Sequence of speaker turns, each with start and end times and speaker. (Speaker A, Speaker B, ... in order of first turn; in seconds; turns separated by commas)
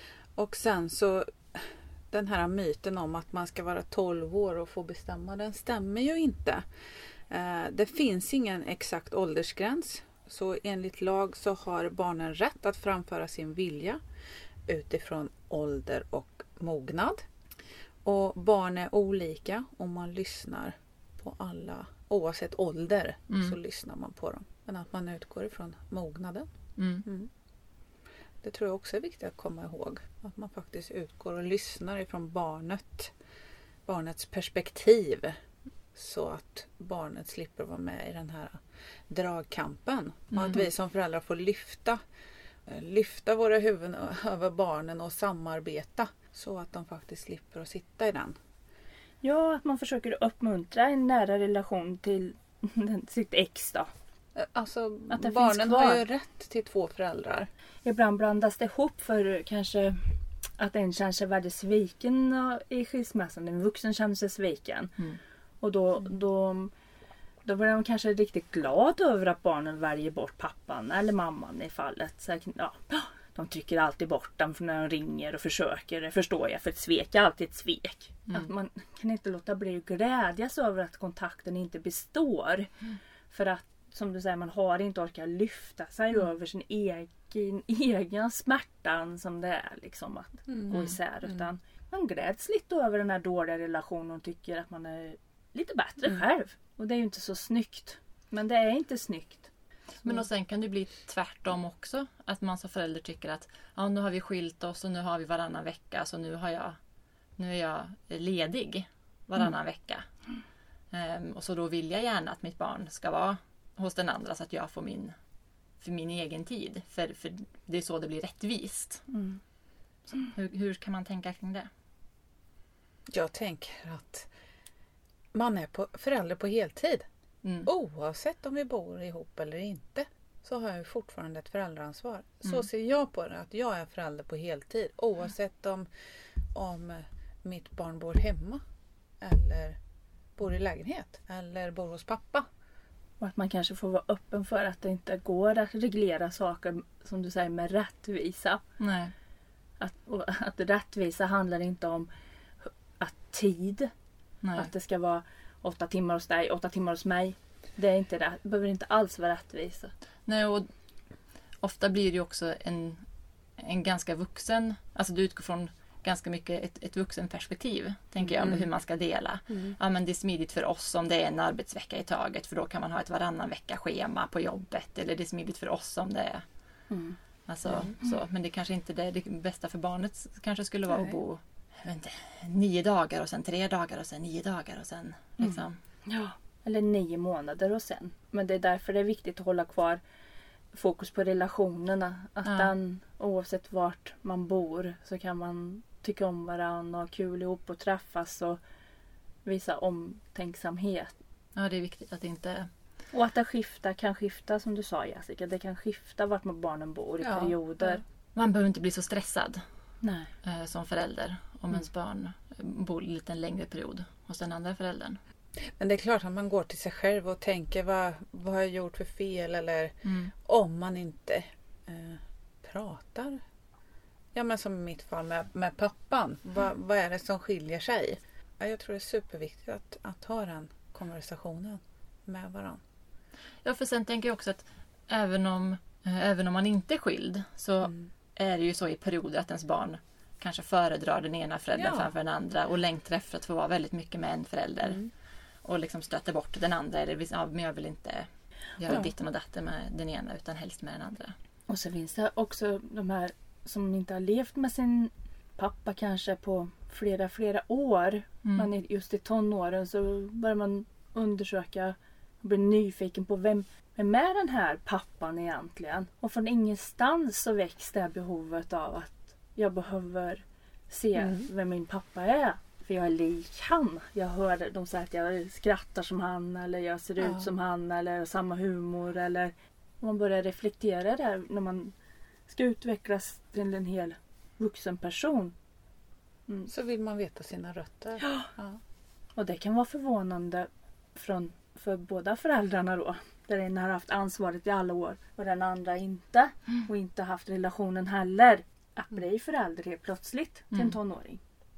Speaker A: 0.4-6.6, Speaker A: 7.3-14.0, Speaker A: 14.7-17.2, Speaker A: 18.0-26.5, Speaker B: 23.3-23.6, Speaker B: 26.8-27.1, Speaker A: 28.4-33.1, Speaker A: 33.9-35.3, Speaker A: 35.9-42.0, Speaker B: 40.3-40.6, Speaker A: 42.7-48.3, Speaker C: 49.2-53.9, Speaker A: 54.4-57.5, Speaker C: 55.1-56.0, Speaker C: 57.8-65.0, Speaker C: 65.6-66.7, Speaker C: 67.4-82.7, Speaker C: 83.3-99.5, Speaker A: 90.5-90.8, Speaker B: 100.0-106.8, Speaker B: 107.4-110.0, Speaker B: 110.9-115.1, Speaker B: 115.8-119.0, Speaker C: 119.1-119.4, Speaker B: 120.1-121.7, Speaker A: 123.1-124.3, Speaker A: 125.3-127.0, Speaker B: 127.4-127.7, Speaker A: 127.7-135.9, Speaker A: 136.5-138.6, Speaker A: 139.2-139.8, Speaker A: 140.4-142.4, Speaker C: 143.2-148.6, Speaker B: 148.8-149.1, Speaker C: 149.8-152.1, Speaker C: 152.6-153.9, Speaker B: 154.4-154.7, Speaker C: 154.5-159.9, Speaker B: 160.3-160.7, Speaker B: 161.6-163.0, Speaker B: 163.6-176.4, Speaker A: 168.2-168.7, Speaker C: 176.9-177.2, Speaker B: 177.5-185.8, Speaker A: 177.6-177.9, Speaker A: 180.9-181.2, Speaker C: 185.4-190.0, Speaker C: 190.7-198.6, Speaker B: 192.4-192.7, Speaker C: 199.4-201.1, Speaker B: 201.6-202.7, Speaker C: 203.1-208.0, Speaker A: 207.2-207.5, Speaker B: 207.8-209.6, Speaker C: 210.0-210.3, Speaker B: 210.4-215.2, Speaker A: 215.8-223.4, Speaker B: 220.0-220.3, Speaker A: 224.3-232.8, Speaker B: 233.6-245.1, Speaker A: 241.7-242.1, Speaker B: 245.6-251.3, Speaker C: 251.7-281.9, Speaker B: 258.4-258.7, Speaker A: 271.2-271.5, Speaker A: 277.2-277.5, Speaker C: 282.5-285.5, Speaker A: 286.7-288.8, Speaker C: 288.2-288.5, Speaker C: 289.3-301.4